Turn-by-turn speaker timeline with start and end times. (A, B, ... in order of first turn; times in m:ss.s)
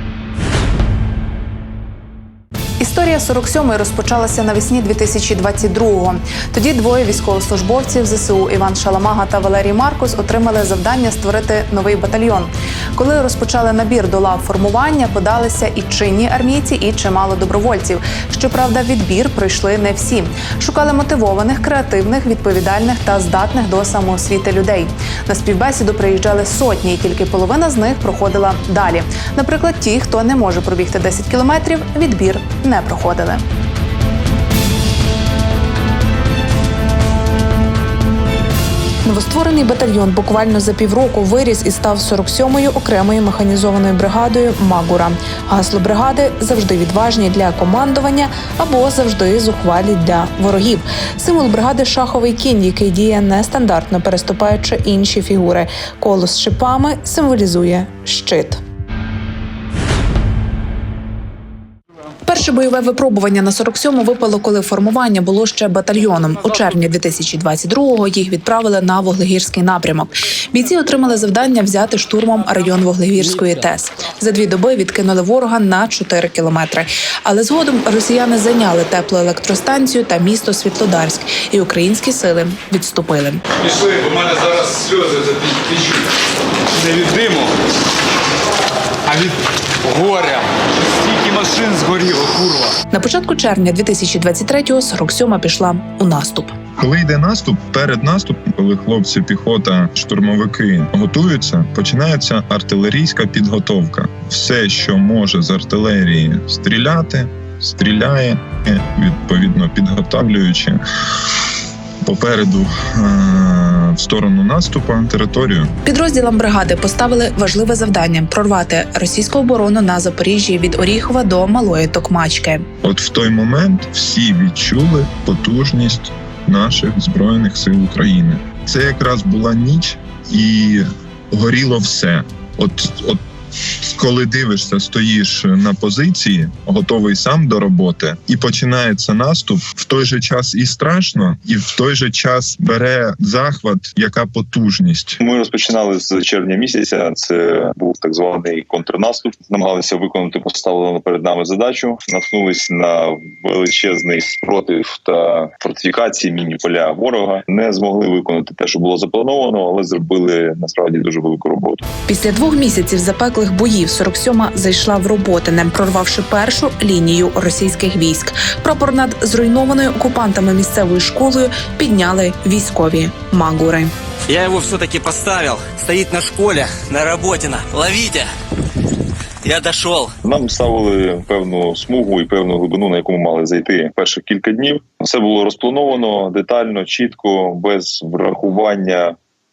0:02.8-0:33.4 A
0:39.0-0:58.6 A
1:02.2-1:23.4 A
1:23.7-1:25.9 B
1:26.8-1:27.5 B
1:29.8-1:30.4 B
1:31.1-1:32.7 B
1:32.9-1:36.5 A
1:36.8-1:50.8 C
1:52.0-1:55.7 C
1:55.8-2:02.6 A
2:02.8-2:13.2 C
2:13.8-2:25.2 C
2:25.2-2:41.8 D
2:42.1-2:53.9 A
2:54.3-2:58.3 E
2:59.4-3:00.1 E
3:00.2-3:09.2 D